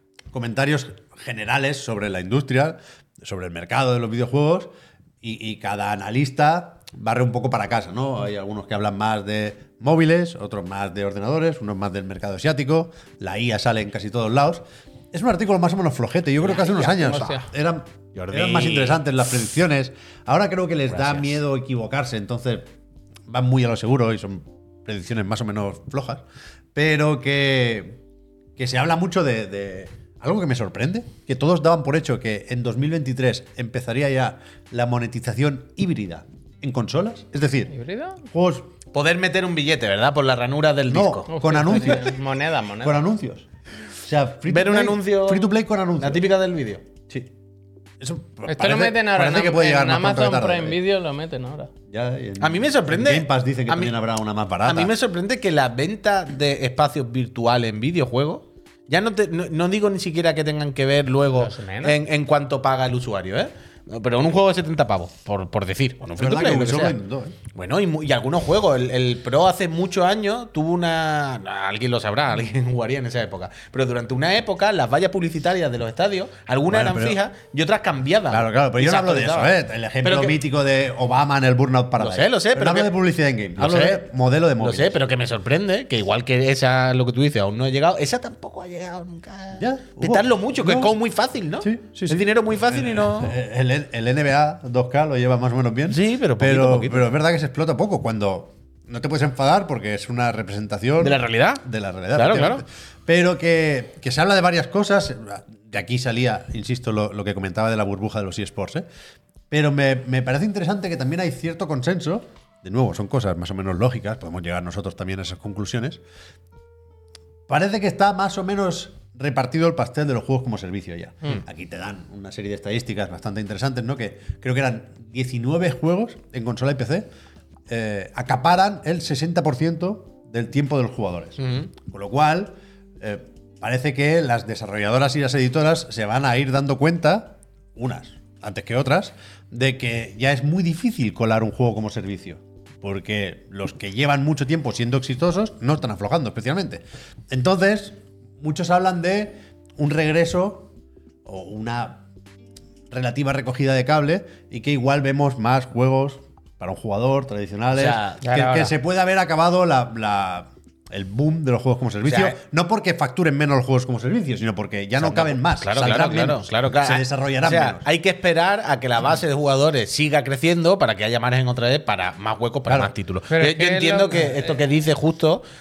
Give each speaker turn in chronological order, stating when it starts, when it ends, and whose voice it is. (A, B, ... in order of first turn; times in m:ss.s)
0:00.3-0:22.7 A
0:16.4-0:17.5 B
0:18.1-0:19.0 C
0:20.9-0:21.4 C
0:23.3-0:28.0 A
0:28.6-0:37.7 A
0:37.7-0:38.2 B
0:38.2-0:38.7 A
0:38.9-0:41.3 C
0:40.9-0:42.2 A
0:41.3-0:43.0 B
0:42.8-0:43.5 A
0:44.0-0:46.3 A
0:44.5-0:46.8 C
0:48.0-0:50.8 A
0:48.5-0:51.7 B
0:51.9-0:54.9 A
0:52.4-0:54.0 C
0:54.6-1:07.0 C
1:01.3-1:02.0 B
1:06.2-1:07.4 A
1:07.5-1:20.4 C
1:16.7-1:17.2 A
1:18.3-1:25.0 A
1:22.0-1:22.9 C
1:23.6-1:24.0 C
1:24.6-1:33.3 C
1:29.6-1:30.9 A
1:31.6-1:48.9 A
1:35.9-1:37.1 C
1:41.0-1:42.6 C
1:49.5-1:56.0 A
1:57.5-2:07.1 A
2:07.7-2:30.7 A
2:11.4-2:11.7 C
2:31.2-2:32.0 A
2:32.9-2:47.8 A
2:37.7-2:38.2 C
2:38.2-2:38.7 B
2:42.0-2:42.4 C
2:45.0-2:55.4 C
2:52.7-2:52.9 A
2:53.3-2:54.5 B